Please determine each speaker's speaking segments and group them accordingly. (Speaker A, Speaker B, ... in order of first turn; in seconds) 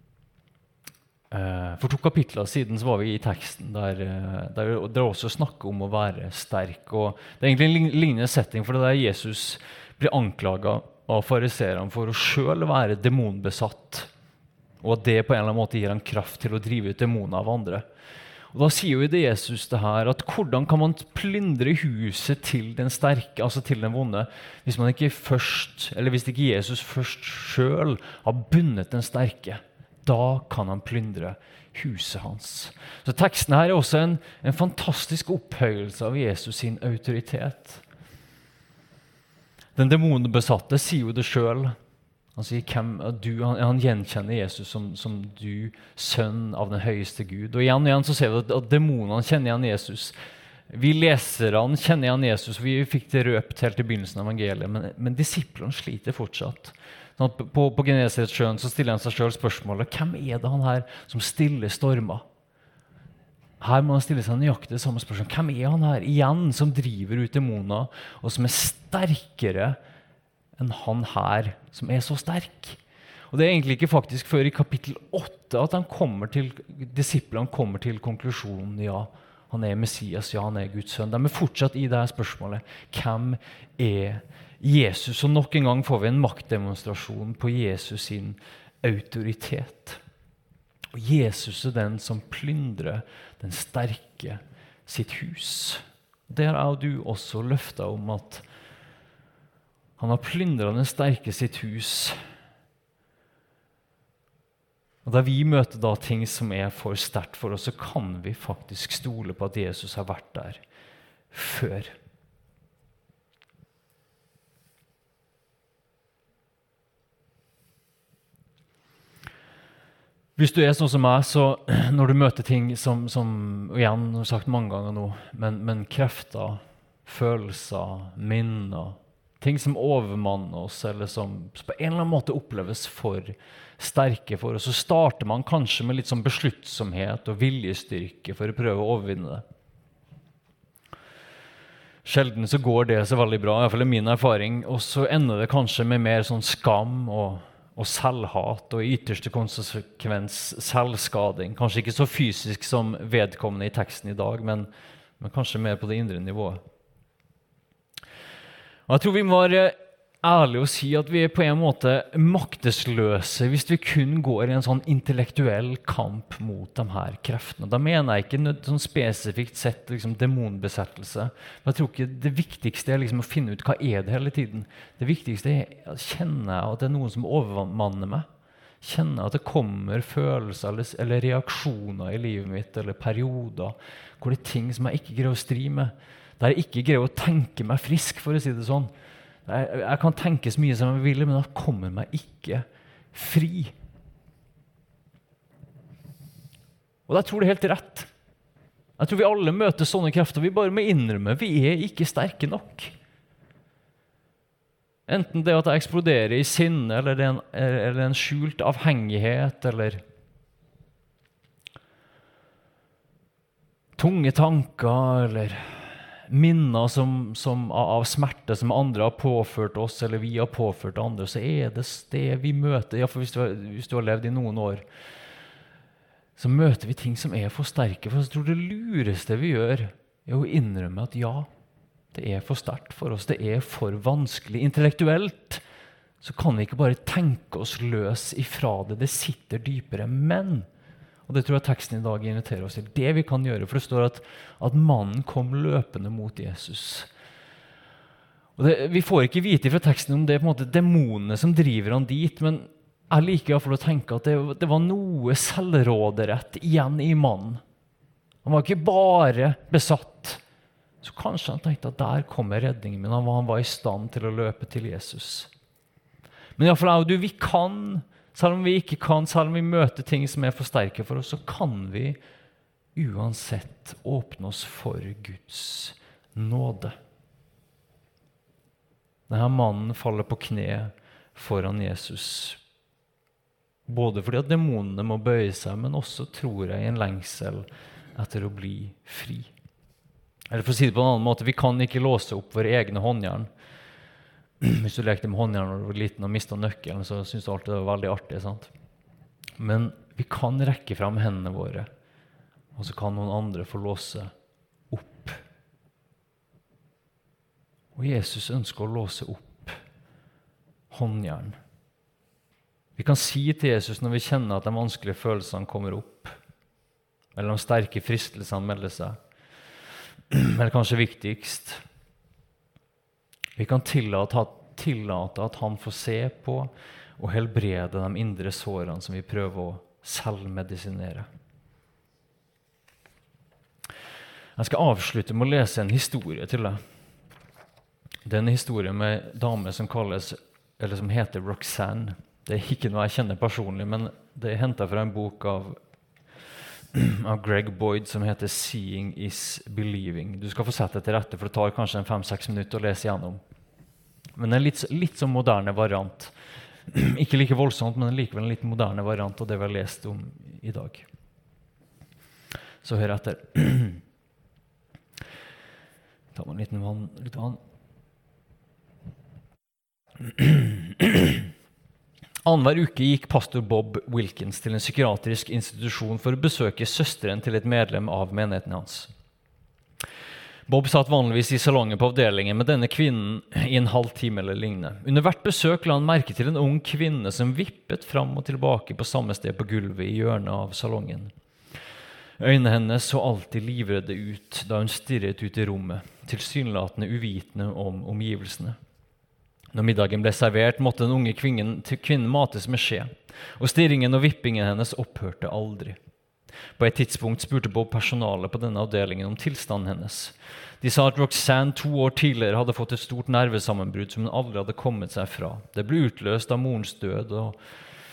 Speaker A: 1.3-14.1, 14.8-17.8, 18.5-37.8, 39.8-41.7, 42.4-50.1, 50.7-62.2, 63.6-69.8, 70.6-72.8, 73.3-90.0, 90.9-98.4, 100.0-102.2, 105.0-110.6, 111.3-111.9, 120.4-139.4, 142.0-154.7, 155.2-156.6, 158.9-178.2, 178.8-188.9, 189.4-193.7, 197.1-198.1, 199.0-202.9, 205.1-210.0, 214.0-224.8, 226.4-231.5, 232.1-235.6, 236.2-240.7, 241.3-247.1, 248.6-257.6, 258.4-260.4, 261.0-265.5, 266.6-272.2, 272.9-276.9, 279.3-282.6, 283.9-289.5, 290.5-293.5, 294.6-298.7, 299.6-301.9, 302.8-304.3, 304.9-305.4, 307.9-309.8, 310.9-311.6, 312.9-316.4, 317.4-319.2, 320.3-321.8, 323.6-331.3, 334.6-336.8, 338.2-345.8, 346.9-353.4, 354.4-356.3, 356.9-361.1, 362.8-364.0, 366.3-367.6, 370.2-371.5, 372.4-379.1, 380.7-391.3, 392.4-398.8, 399.7-405.9, 406.8-417.6